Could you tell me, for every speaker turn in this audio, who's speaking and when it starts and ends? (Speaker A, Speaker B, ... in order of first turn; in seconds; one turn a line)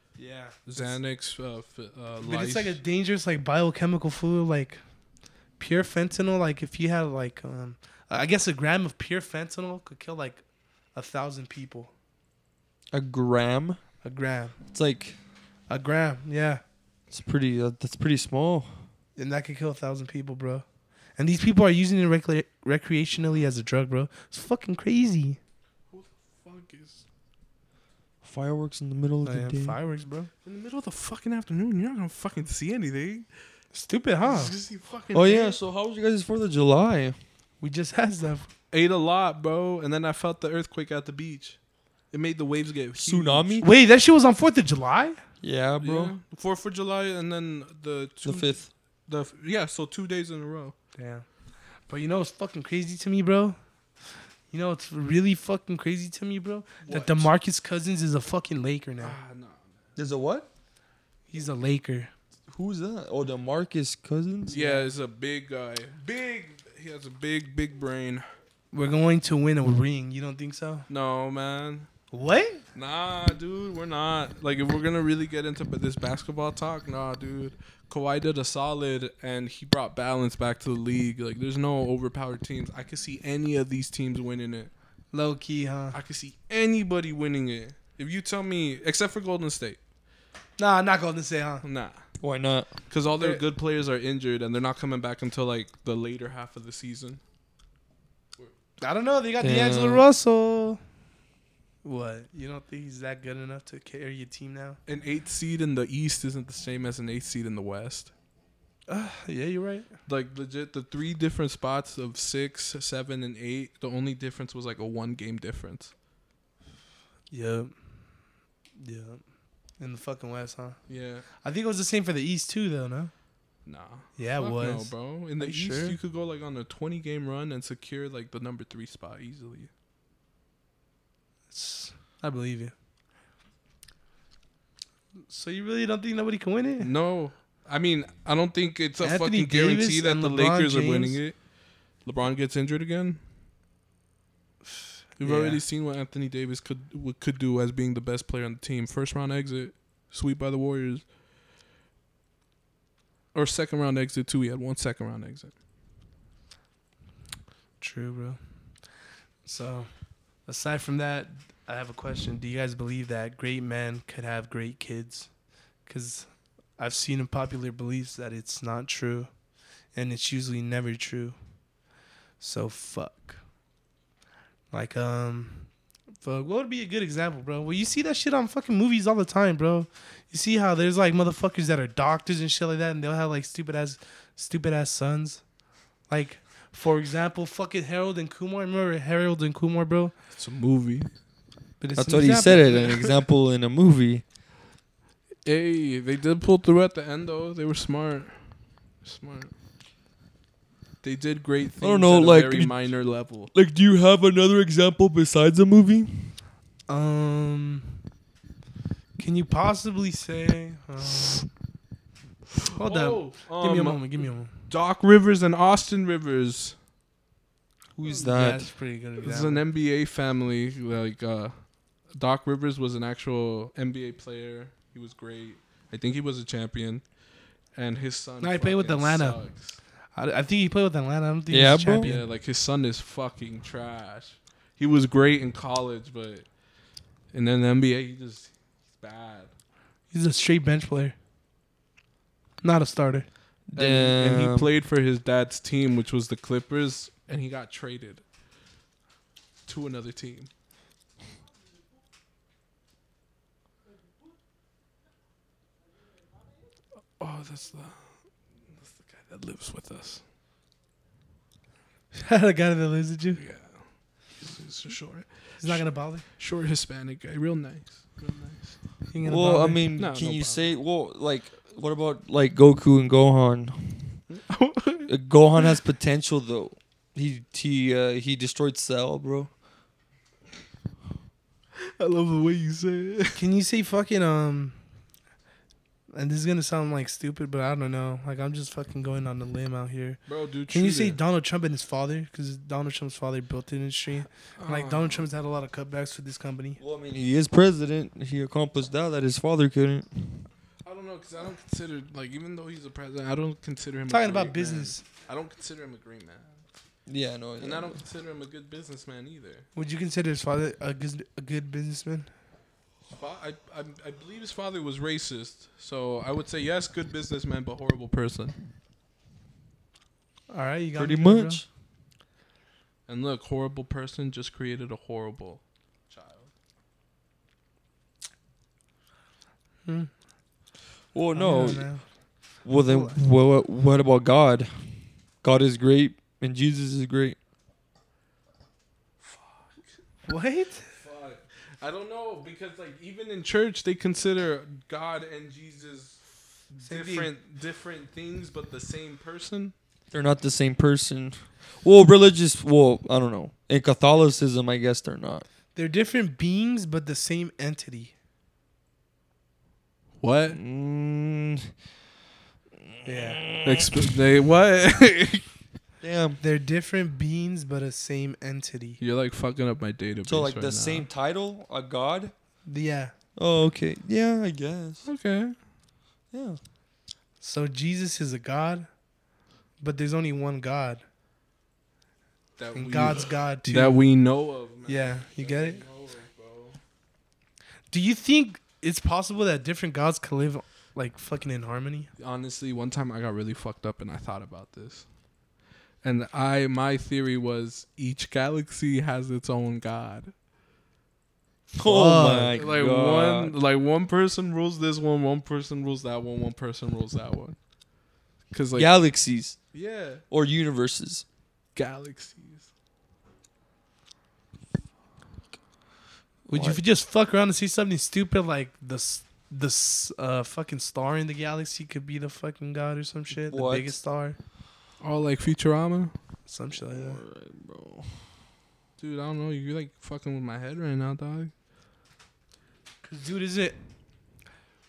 Speaker A: 0.1-1.0
Speaker B: 0.7-2.8
Speaker A: 2.2-4.8
Speaker A: 5.6-10.4
Speaker A: 10.9-11.9
Speaker C: 12.9-13.8
Speaker A: 14.0-14.6
Speaker C: 14.7-15.2
Speaker A: 15.7-16.6
Speaker C: 17.1-18.8
Speaker A: 19.1-20.6
Speaker A: 21.2-25.4
Speaker B: 25.9-27.0
Speaker C: 28.2-29.8
Speaker A: 29.2-30.3
Speaker B: 30.4-33.3
Speaker A: 33.7-34.5
Speaker B: 34.2-35.6
Speaker C: 35.1-37.1
Speaker A: 37.6-38.5
Speaker B: 38.7-41.6
Speaker B: 42.1-43.6
Speaker C: 43.0-43.7
Speaker A: 43.6-45.2
Speaker C: 45.4-46.1
Speaker B: 45.8-50.7
Speaker C: 48.2-48.7
Speaker A: 51.0-51.2
Speaker A: 51.9-53.6
Speaker A: 54.5-59.2
Speaker B: 56.8-57.3
Speaker B: 59.0-59.9
Speaker C: 60.0-60.5
Speaker A: 61.3-62.1
Speaker C: 62.5-64.6
Speaker A: 64.5-64.9
Speaker B: 64.5-68.2
Speaker A: 68.7-70.9
Speaker B: 70.9-71.9
Speaker A: 72.1-72.6
Speaker B: 72.7-84.7
Speaker A: 85.1-86.0
Speaker B: 85.9-89.8
Speaker A: 90.6-91.6
Speaker B: 91.6-92.0
Speaker C: 92.2-92.7
Speaker B: 92.9-97.2
Speaker A: 98.8-100.8
Speaker C: 99.4-100.0
Speaker A: 101.8-104.8
Speaker B: 104.9-108.1
Speaker A: 108.9-109.9
Speaker B: 110.1-115.9
Speaker A: 117.3-117.7
Speaker A: 118.8-119.2
Speaker A: 119.8-120.8
Speaker B: 120.9-121.2
Speaker A: 121.3-123.1
Speaker B: 123.7-129.7
Speaker A: 124.2-126.0
Speaker A: 131.5-132.7
Speaker A: 135.3-136.9
Speaker B: 136.8-141.4
Speaker A: 139.0-141.2
Speaker B: 142.0-143.2
Speaker A: 144.7-145.6
Speaker B: 145.2-151.1
Speaker B: 153.3-155.5
Speaker A: 157.8-158.4
Speaker A: 159.4-159.9
Speaker A: 160.4-165.3
Speaker A: 165.8-169.3
Speaker A: 169.9-171.3
Speaker A: 172.4-173.4
Speaker A: 174.7-175.7
Speaker A: 176.2-185.4
Speaker A: 186.1-190.1
Speaker B: 190.3-191.1
Speaker A: 191.8-193.1
Speaker C: 191.9-194.2
Speaker B: 195.4-199.5
Speaker B: 201.0-203.5
Speaker C: 201.8-202.9
Speaker C: 203.5-206.3
Speaker A: 206.9-208.0
Speaker A: 209.2-211.5
Speaker A: 212.7-214.5
Speaker B: 212.8-216.8
Speaker C: 217.9-218.7
Speaker A: 218.1-219.6
Speaker B: 219.2-227.0
Speaker B: 227.7-229.8
Speaker A: 228.4-229.4
Speaker A: 230.1-232.3
Speaker C: 231.5-232.1
Speaker B: 232.0-236.4
Speaker B: 237.3-239.5
Speaker A: 240.1-241.2
Speaker A: 242.6-243.3
Speaker C: 243.7-244.7
Speaker B: 243.8-248.2
Speaker B: 249.7-250.5
Speaker B: 257.2-258.2
Speaker B: 258.7-260.2
Speaker A: 262.1-263.4
Speaker B: 263.4-268.8
Speaker A: 265.6-266.2
Speaker A: 269.1-269.8
Speaker C: 269.2-274.2
Speaker B: 270.0-270.6
Speaker B: 274.3-275.7
Speaker C: 275.1-279.5
Speaker B: 281.8-283.4
Speaker A: 283.3-284.8
Speaker A: 286.1-296.8
Speaker B: 290.3-291.2
Speaker B: 294.6-295.2
Speaker C: 296.8-300.5
Speaker B: 300.8-306.6
Speaker A: 304.1-305.0
Speaker C: 307.1-308.0
Speaker B: 307.6-309.7
Speaker A: 309.7-312.3
Speaker B: 313.1-318.6
Speaker A: 320.5-321.6
Speaker C: 320.9-321.6
Speaker B: 323.1-326.5
Speaker A: 329.9-330.1
Speaker C: 331.1-331.9
Speaker A: 331.3-332.0
Speaker C: 332.6-334.9
Speaker A: 332.8-333.2
Speaker C: 335.4-337.4
Speaker B: 339.2-340.0
Speaker A: 340.2-340.9
Speaker B: 340.9-349.7
Speaker A: 346.8-347.3
Speaker C: 350.1-355.4
Speaker A: 355.7-358.1
Speaker B: 360.2-360.6
Speaker C: 360.5-361.7
Speaker C: 362.8-364.1
Speaker A: 363.0-363.4
Speaker B: 363.6-365.5
Speaker C: 366.0-366.4
Speaker A: 366.4-369.0
Speaker B: 369.0-371.1
Speaker C: 370.2-372.3
Speaker A: 372.6-373.1
Speaker C: 373.4-375.1
Speaker B: 375.0-375.6
Speaker C: 376.3-376.6
Speaker A: 377.4-378.9
Speaker A: 379.8-381.0
Speaker B: 382.6-386.8
Speaker A: 382.7-384.0
Speaker A: 384.9-385.8
Speaker A: 387.9-392.1
Speaker B: 392.2-395.1
Speaker B: 396.0-400.3
Speaker C: 401.7-403.5
Speaker A: 401.8-402.5
Speaker B: 402.5-407.6
Speaker B: 408.5-408.9
Speaker C: 408.7-409.6
Speaker B: 409.7-410.2
Speaker C: 410.3-411.2
Speaker B: 411.7-412.7
Speaker C: 416.5-416.8
Speaker A: 416.5-424.4
Speaker C: 423.3-423.9
Speaker B: 425.0-426.1
Speaker A: 426.4-427.2
Speaker C: 426.8-428.3
Speaker B: 429.0-431.5
Speaker A: 433.0-433.8